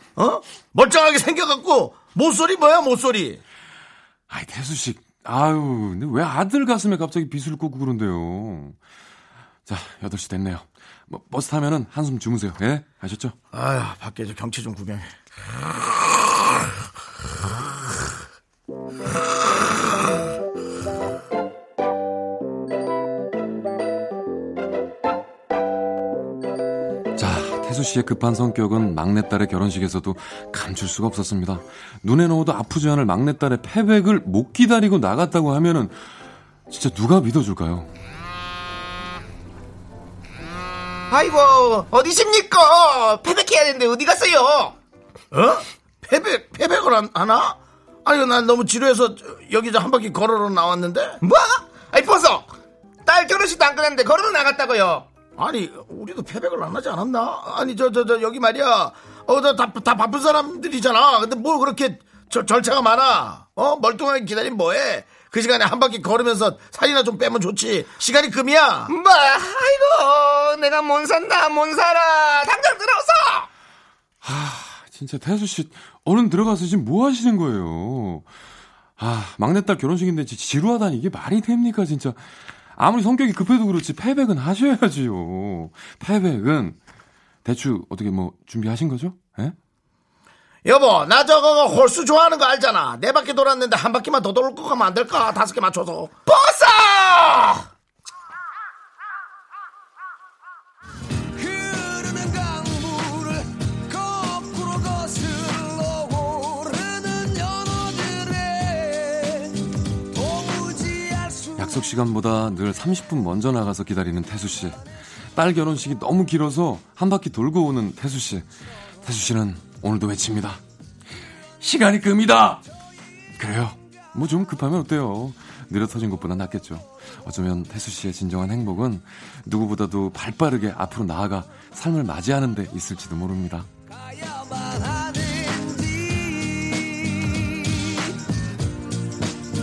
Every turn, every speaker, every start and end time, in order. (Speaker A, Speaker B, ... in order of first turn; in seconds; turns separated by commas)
Speaker A: 0.1-3.4, Speaker B: 4.3-8.8, Speaker B: 9.7-13.3, Speaker A: 13.5-15.2, Speaker B: 27.1-36.1, Speaker B: 36.7-37.9, Speaker C: 41.1-44.8, Speaker A: 45.3-51.2, Speaker C: 51.2-52.5, Speaker C: 53.0-55.1, Speaker A: 55.4-68.9, Speaker C: 68.9-73.5, Speaker B: 74.2-78.3, Speaker B: 79.0-86.8, Speaker B: 87.4-89.5, Speaker A: 90.6-96.1, Speaker C: 96.3-97.6, Speaker D: 101.3-112.0, Speaker B: 111.6-114.8, Speaker B: 115.3-118.5, Speaker B: 119.0-120.6, Speaker B: 121.6-122.6, Speaker B: 123.4-133.7, Speaker D: 133.9-138.1